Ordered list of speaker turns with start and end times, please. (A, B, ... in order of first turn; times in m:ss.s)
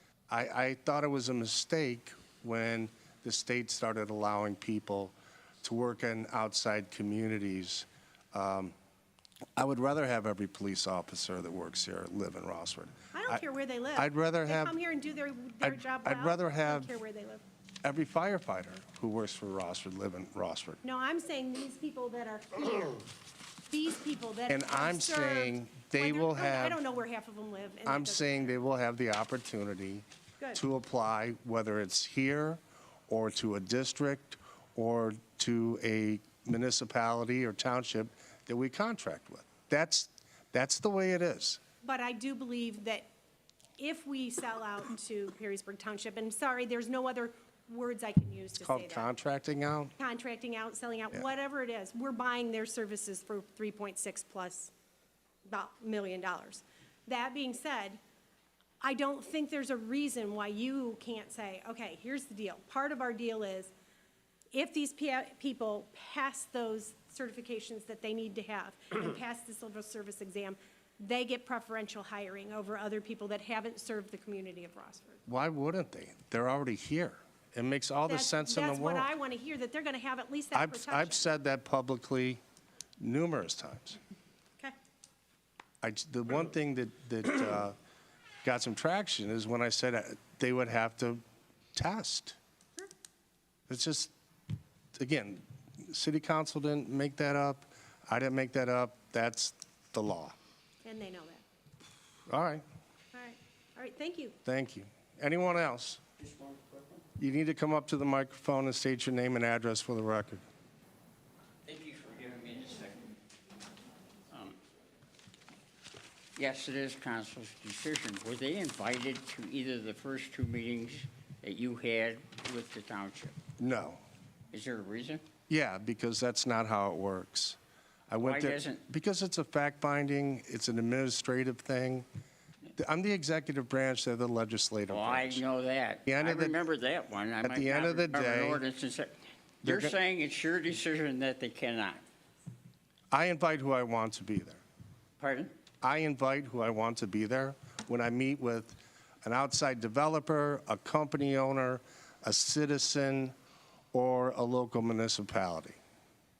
0:00.3-0:08.7 A
0:09.6-0:13.4 A
0:13.1-0:17.4 B
0:14.0-0:14.8 A
0:15.6-0:16.9 A
0:17.8-0:20.8 A
0:20.8-0:23.1 B
0:23.7-0:28.5 B
0:24.5-0:26.8 A
0:27.9-0:41.6 A
0:41.8-0:43.1 B
0:43.8-0:49.1 B
0:48.6-0:49.9 A
0:50.0-0:54.7 B
0:55.5-0:58.0 B
0:58.8-1:03.7 B
1:04.5-1:15.2 B
1:15.3-1:19.1 A
1:18.0-1:21.3 B
1:20.5-1:22.4 A
1:23.0-1:24.0 A
1:25.8-1:27.8 A
1:28.4-1:31.2 A
1:31.7-1:32.4 A
1:33.7-1:34.1 A
1:35.0-1:40.4 A
1:40.8-1:41.4 B
1:42.3-1:42.6 A
1:43.1-1:44.4 B
1:44.4-1:46.0 A
1:46.2-1:47.0 C
1:47.2-1:50.4 A
1:51.6-1:53.1 C
1:54.3-1:54.6 C
1:56.4-2:03.4 C
2:03.6-2:04.0 A
2:04.5-2:05.2 C
2:05.5-2:07.6 A
2:08.1-2:12.1 A
2:08.2-2:08.8 C
2:12.8-2:15.4 A
2:14.9-2:22.0 C
2:16.1-2:16.6 A
2:17.4-2:18.6 A
2:19.6-2:19.9 A
2:23.1-2:24.6 A
2:25.2-2:25.5 C
2:25.8-2:33.3 A
2:33.9-2:35.8 A